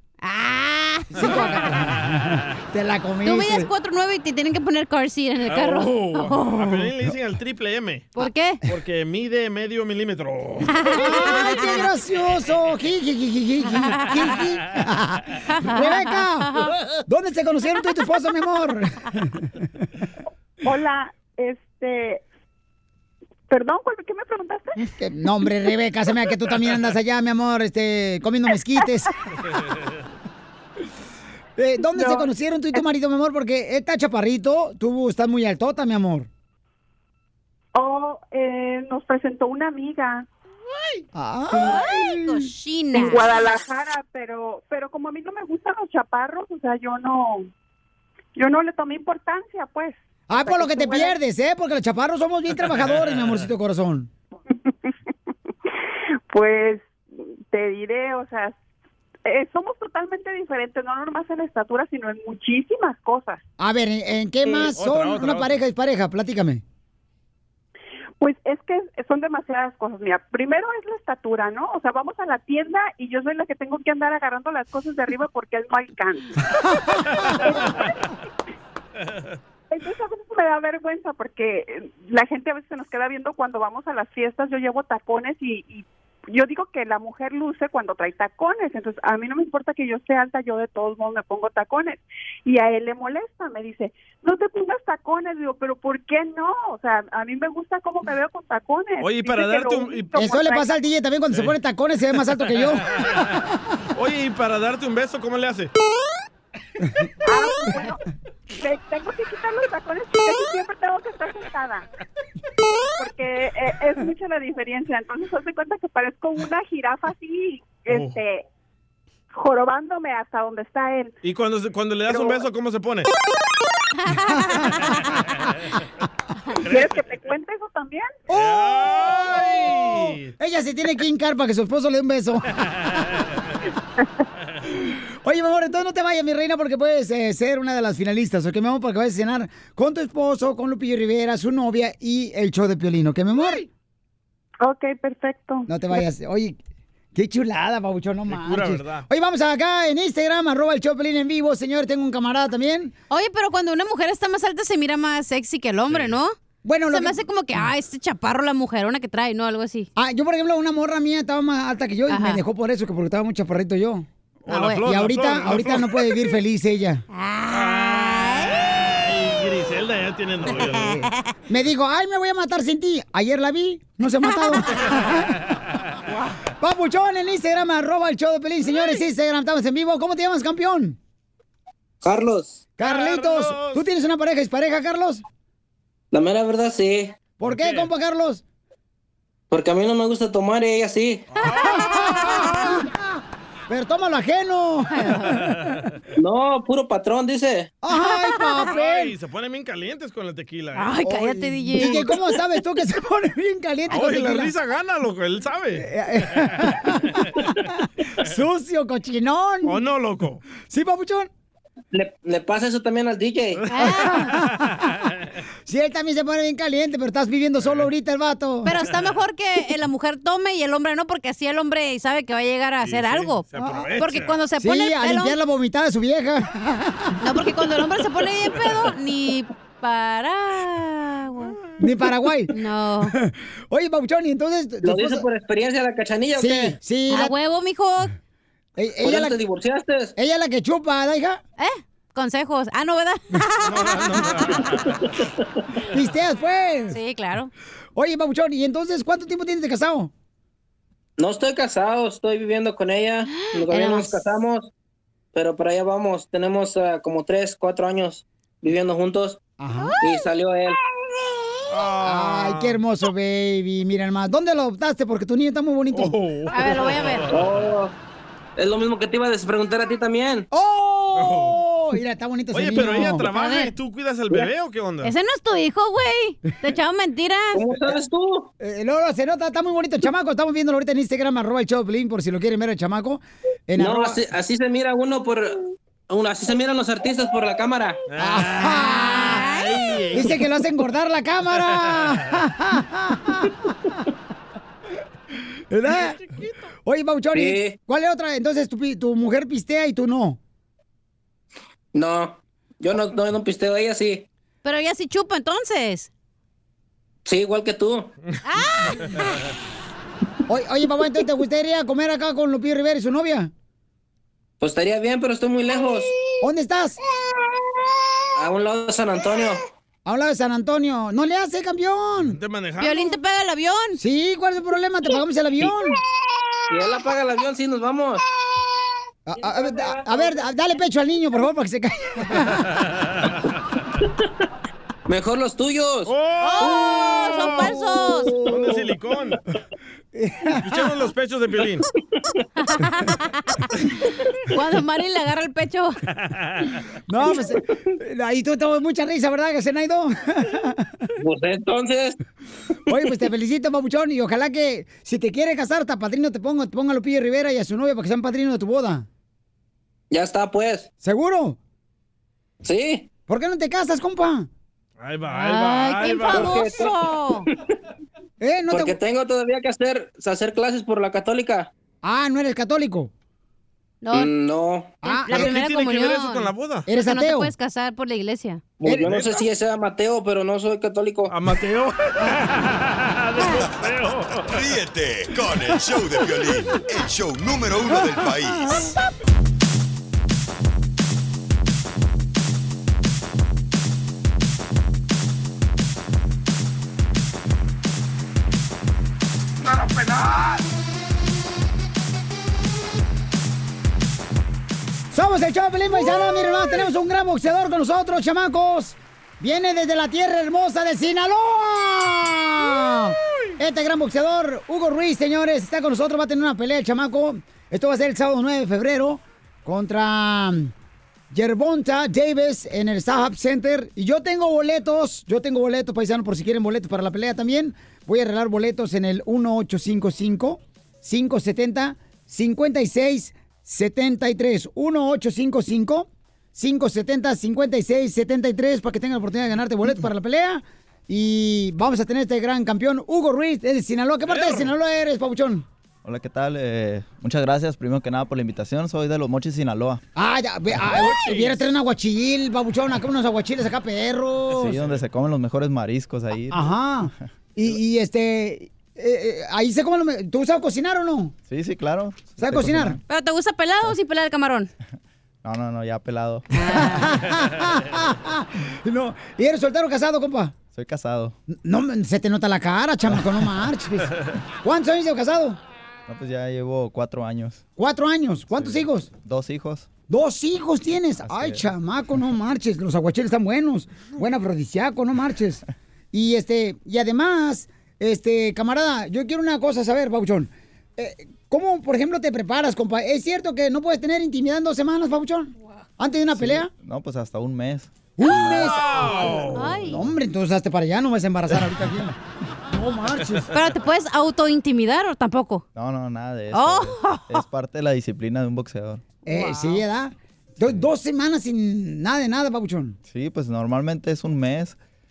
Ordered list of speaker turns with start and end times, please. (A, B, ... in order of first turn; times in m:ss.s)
0:00.2-0:01.7 A
0:01.2-0:03.7 B
0:01.2-0:02.4 C
0:03.2-0:06.9 A
0:05.5-0:10.9 C
0:08.2-0:08.6 A
0:10.7-0:11.9 A
0:10.9-0:16.5 B
0:13.7-0:14.4 A
0:15.5-0:16.8 A
0:17.1-0:19.6 B
0:20.6-0:22.2 D
0:23.5-0:24.8 D
0:24.9-0:29.1 B
0:31.6-0:36.3 B
0:31.8-0:32.8 D
0:37.8-0:40.3 D
0:41.1-0:42.5 B
0:41.5-0:43.3 A
0:42.9-0:47.5 D
0:48.4-0:51.2 D
0:50.3-0:54.1 B
0:52.7-0:53.5 C
0:56.3-0:58.6 D
0:59.2-1:03.4 D
1:03.6-1:06.6 B
1:04.4-1:05.5 C
1:08.2-1:16.4 D
1:17.4-1:18.0 D
1:19.7-1:40.7 D
1:39.0-1:40.1 C
1:40.2-1:42.8 B
1:42.5-1:43.4 C
1:44.0-1:45.7 C
1:47.3-1:48.0 D
1:48.6-1:51.8 D
1:53.0-1:58.5 D
1:57.9-1:58.2 C
1:59.3-2:01.1 D
2:01.2-2:03.1 C
2:02.1-2:02.4 D
2:04.0-2:05.0 A
2:06.7-2:07.0 C
2:06.7-2:08.1 D
2:08.3-2:10.3 C
2:08.3-2:12.5 B
2:12.6-2:13.1 C
2:15.2-2:23.6 B
2:24.6-2:25.7 D
2:25.7-2:26.6 B
2:27.2-2:33.0 B
2:28.3-2:29.0 C
2:33.1-2:36.4 A
2:35.9-2:36.2 C
2:36.6-2:37.2 B
2:36.9-2:39.9 A
2:40.0-2:44.1 B
2:42.1-2:42.4 A
2:44.5-2:45.9 C
2:44.5-2:44.8 A
2:44.8-2:47.0 B
2:47.1-2:48.6 A
2:47.5-2:51.1 C
2:50.5-2:51.1 A
2:51.5-2:55.3 B
2:54.2-2:54.7 A
2:56.6-3:01.0 B
3:02.0-3:02.6 E
3:02.8-3:05.2 B
3:02.8-3:03.8 C
3:06.1-3:07.2 E
3:07.4-3:08.4 B
3:07.4-3:07.9 C
3:09.5-3:11.2 E
3:11.3-3:12.8 C
3:11.6-3:12.9 B
3:12.0-3:12.3 A
3:13.7-3:15.5 B
3:15.0-3:15.4 A
3:15.5-3:15.8 C
3:16.2-3:17.7 E
3:17.8-3:19.1 B
3:17.9-3:18.7 A
3:18.7-3:22.1 C
3:20.8-3:22.2 A
3:21.1-3:24.5 B
3:23.9-3:26.8 C
3:25.8-3:29.8 B
3:29.6-3:30.4 C
3:30.7-3:31.3 B
3:31.9-3:33.6 E
3:33.6-3:35.1 C
3:33.7-3:34.3 A
3:33.8-3:34.9 B
3:35.7-3:38.7 B
3:37.6-3:37.9 C
3:38.6-3:45.4 A
3:42.8-3:44.4 C
3:43.6-3:43.9 B
3:44.6-3:47.2 B
3:47.2-3:51.6 A
3:51.8-3:55.3 B
3:52.5-3:53.2 A
3:54.8-3:56.8 E
3:56.4-3:57.3 B
3:57.1-3:58.1 A
3:58.8-3:59.4 B
3:59.0-4:00.1 E
4:00.2-4:01.4 B
4:01.6-4:04.5 A
4:03.6-4:04.9 C
4:05.9-4:07.0 B
4:06.9-4:07.5 A
4:08.0-4:10.1 B
4:11.2-4:14.7 E
4:13.3-4:14.2 A
4:15.3-4:19.4 E
4:19.6-4:20.0 B
4:20.0-4:20.8 E
4:21.7-4:22.8 C
4:22.0-4:26.2 B
4:25.9-4:27.7 C
4:26.5-4:27.3 A
4:27.3-4:27.9 E
4:28.6-4:30.5 E
4:30.5-4:33.3 B
4:31.2-4:31.6 C
4:32.5-4:35.1 C
4:33.2-4:33.7 A
4:35.0-4:37.7 A
4:37.5-4:38.5 E
4:38.6-4:44.2 B
4:43.8-4:45.6 E
4:46.1-4:48.0 E
4:48.1-4:50.5 C
4:48.2-4:49.4 B
4:48.9-4:50.0 A
4:50.1-4:53.6 B
4:51.9-4:52.1 C
4:55.7-4:56.2 B
4:56.9-5:00.4 B
4:57.3-4:57.8 E
5:01.9-5:04.2 E
5:04.6-5:06.1 A
5:07.3-5:08.1 E
5:08.4-5:09.4 A
5:10.5-5:13.5 B
5:14.6-5:16.1 E
5:16.4-5:17.0 B
5:18.4-5:19.6 E
5:20.1-5:22.4 B
5:22.2-5:23.2 C
5:22.8-5:24.0 A
5:24.0-5:26.0 B
5:26.7-5:28.2 E
5:29.3-5:32.6 B
5:29.4-5:30.3 E
5:35.1-5:36.1 E
5:36.1-5:39.4 C
5:36.4-5:38.4 A
5:38.1-5:38.6 B
5:40.1-5:40.9 B
5:40.5-5:41.9 C
5:42.6-5:43.6 A
5:44.5-5:45.9 A
5:46.2-5:46.7 C
5:47.1-5:51.0 B
5:51.2-5:52.2 E
5:52.9-5:59.1 B
6:00.1-6:00.9 E
6:01.0-6:01.6 B
6:02.6-6:03.1 E
6:03.3-6:04.5 B
6:05.0-6:06.8 C
6:05.3-6:07.5 A
6:06.3-6:06.9 E
6:08.4-6:09.0 B
6:08.7-6:11.7 E
6:12.0-6:13.1 B
6:14.0-6:14.3 A
6:14.1-6:15.0 E
6:15.0-6:15.5 B
6:15.0-6:18.7 A
6:15.3-6:16.8 C
6:16.9-6:17.5 B
6:18.8-6:21.3 E
6:18.8-6:19.2 B
6:19.0-6:19.3 C
6:21.3-6:24.5 C
6:24.5-6:28.8 F
6:45.1-7:00.7 B
7:01.3-7:25.7 B
7:24.3-7:24.7 C
7:26.0-7:30.0 G
7:30.2-7:34.8 B
7:30.9-7:31.6 C
7:34.6-7:36.7 G
7:36.5-7:41.4 B
7:41.5-7:43.0 G
7:42.4-7:43.0 B
7:43.1-7:44.7 A
7:45.4-7:46.5 G
7:46.5-7:47.1 A
7:46.6-7:50.6 B
7:50.7-7:51.4 G
7:51.5-7:55.6 B
7:56.1-7:57.6 G
7:57.8-7:59.1 B
7:58.5-7:59.9 G
8:00.1-8:16.7 B
8:01.2-8:01.6 G
8:16.3-8:17.9 G
8:18.2-8:22.2 B
8:18.2-8:20.1 A
8:18.3-8:19.8 C
8:22.7-8:23.5 B
8:23.5-8:25.6 A
8:25.8-8:29.0 G
8:26.5-8:27.4 A
8:29.2-8:33.0 B
8:29.4-8:29.8 A
8:33.1-8:34.8 G